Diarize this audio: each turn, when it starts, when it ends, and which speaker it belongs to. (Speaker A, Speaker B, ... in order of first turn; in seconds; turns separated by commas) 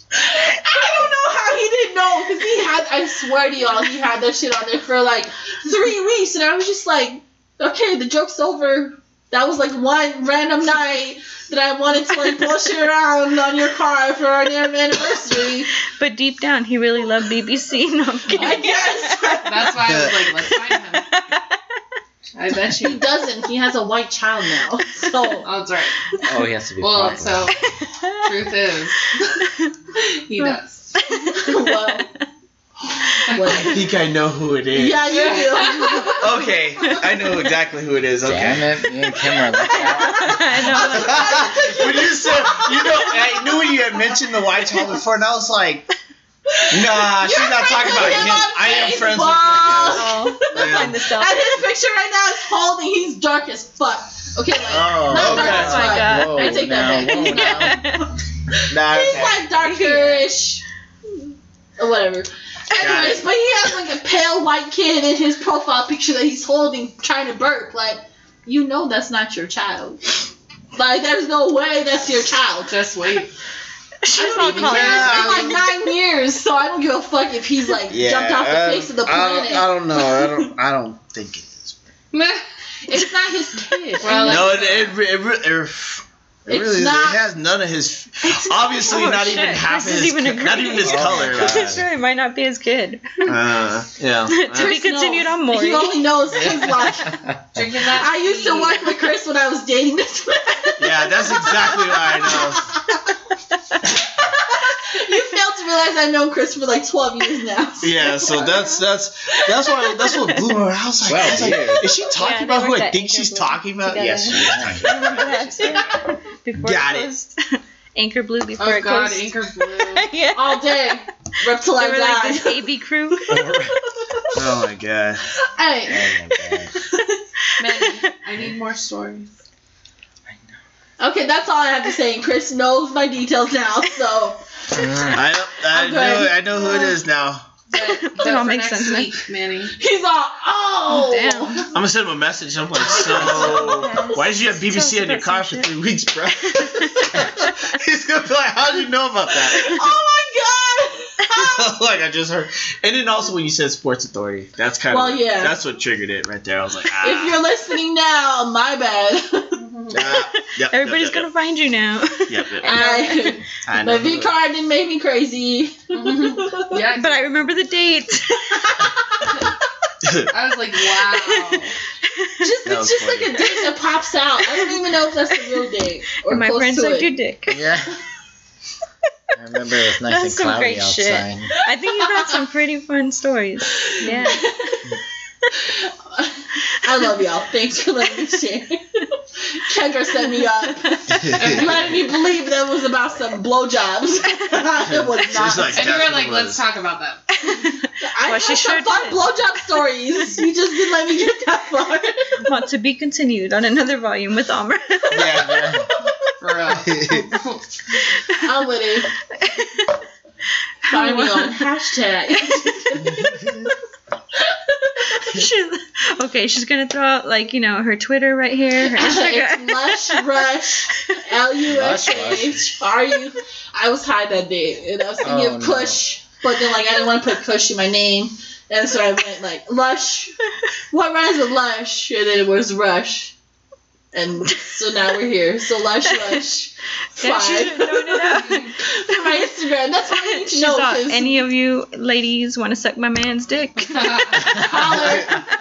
Speaker A: 0.1-15.7, Speaker B: 15.8-19.4, Speaker A: 18.3-19.9, Speaker C: 19.4-21.1, Speaker D: 19.9-20.2, Speaker B: 20.9-21.6, Speaker C: 22.3-23.0, Speaker A: 22.8-25.5, Speaker B: 25.1-25.4, Speaker C: 25.4-26.0, Speaker E: 26.2-27.5, Speaker C: 26.8-27.6, Speaker B: 27.7-28.2, Speaker C: 28.1-29.1, Speaker B: 29.4-29.7, Speaker C: 30.2-30.9, Speaker B: 30.4-32.0, Speaker A: 31.3-32.1, Speaker A: 33.3-33.9, Speaker D: 33.6-35.3, Speaker A: 34.7-37.0, Speaker C: 35.1-36.1, Speaker D: 36.2-38.8, Speaker E: 38.2-40.5, Speaker A: 39.8-40.2, Speaker B: 39.8-41.5, Speaker D: 40.8-45.9, Speaker A: 40.9-43.7, Speaker A: 46.6-58.1, Speaker D: 46.7-51.0, Speaker B: 49.9-51.5, Speaker D: 54.7-56.0, Speaker E: 55.0-57.8, Speaker B: 55.6-58.1, Speaker D: 58.7-59.4, Speaker A: 58.7-60.6, Speaker B: 59.6-60.3, Speaker A: 61.8-70.2, Speaker D: 62.8-63.3, Speaker A: 70.8-72.7, Speaker C: 72.7-73.3, Speaker B: 74.0-75.6, Speaker A: 74.1-80.5, Speaker D: 74.4-75.6, Speaker D: 77.9-81.8, Speaker C: 82.1-82.4, Speaker A: 82.8-84.5, Speaker B: 83.6-84.2, Speaker C: 84.0-85.0, Speaker D: 84.2-91.8, Speaker A: 86.5-87.2, Speaker A: 88.2-88.7, Speaker B: 88.7-93.3, Speaker E: 90.8-91.8, Speaker D: 93.2-94.8, Speaker B: 94.3-96.2, Speaker A: 94.5-97.2, Speaker E: 96.7-97.4, Speaker C: 97.5-98.9, Speaker A: 98.0-103.0, Speaker D: 100.8-102.7, Speaker A: 103.9-108.8, Speaker D: 107.8-115.8, Speaker B: 110.1-110.5, Speaker E: 111.0-111.9, Speaker B: 112.1-119.3, Speaker E: 114.3-115.1, Speaker D: 116.6-117.1, Speaker C: 118.6-120.1, Speaker B: 119.9-120.9, Speaker A: 120.3-122.6, Speaker B: 121.7-123.6, Speaker D: 123.3-123.7, Speaker A: 124.1-124.6, Speaker D: 124.3-125.2, Speaker A: 125.4-127.2, Speaker E: 125.9-126.7, Speaker C: 127.6-129.3, Speaker A: 131.0-134.4, Speaker E: 134.7-135.2, Speaker D: 135.1-137.5, Speaker A: 135.6-136.9, Speaker C: 137.7-139.7, Speaker B: 137.9-139.2, Speaker A: 139.8-141.7, Speaker B: 140.9-141.7, Speaker D: 141.7-149.9, Speaker A: 142.8-144.2, Speaker B: 143.2-145.7, Speaker B: 146.5-147.5, Speaker A: 149.5-151.8, Speaker D: 151.3-157.4, Speaker A: 154.9-155.6, Speaker A: 157.0-159.7, Speaker D: 159.9-161.3, Speaker B: 160.0-163.4, Speaker D: 162.3-162.7, Speaker A: 162.6-166.8, Speaker D: 163.6-164.3, Speaker C: 165.9-167.3, Speaker B: 167.0-168.9, Speaker A: 168.7-169.5, Speaker D: 170.0-170.3, Speaker C: 170.3-171.7, Speaker B: 172.2-172.5, Speaker A: 172.4-177.1, Speaker D: 172.7-173.4, Speaker B: 174.5-175.4, Speaker B: 176.2-177.6, Speaker E: 177.5-177.9, Speaker E: 179.4-181.5, Speaker B: 180.1-184.5, Speaker C: 184.0-184.4, Speaker A: 184.3-184.5, Speaker A: 185.6-195.8, Speaker B: 190.2-191.0, Speaker D: 191.2-191.5, Speaker C: 191.4-192.0, Speaker D: 194.9-196.6, Speaker C: 195.7-197.2, Speaker B: 197.4-199.3, Speaker A: 198.0-202.5, Speaker B: 202.4-205.6, Speaker D: 205.1-205.8, Speaker E: 205.3-205.8, Speaker C: 206.4-207.6, Speaker D: 206.9-207.2, Speaker B: 208.2-208.4, Speaker A: 208.4-209.1, Speaker B: 209.4-210.0, Speaker B: 210.8-211.7, Speaker A: 210.9-213.7, Speaker A: 214.4-215.4, Speaker B: 215.1-220.5, Speaker A: 218.8-230.4, Speaker E: 221.7-222.6, Speaker E: 225.2-226.0, Speaker A: 230.9-233.3, Speaker A: 234.1-241.4, Speaker B: 237.2-239.4, Speaker C: 238.3-238.7, Speaker B: 240.1-245.4, Speaker C: 243.9-244.8, Speaker A: 244.4-245.4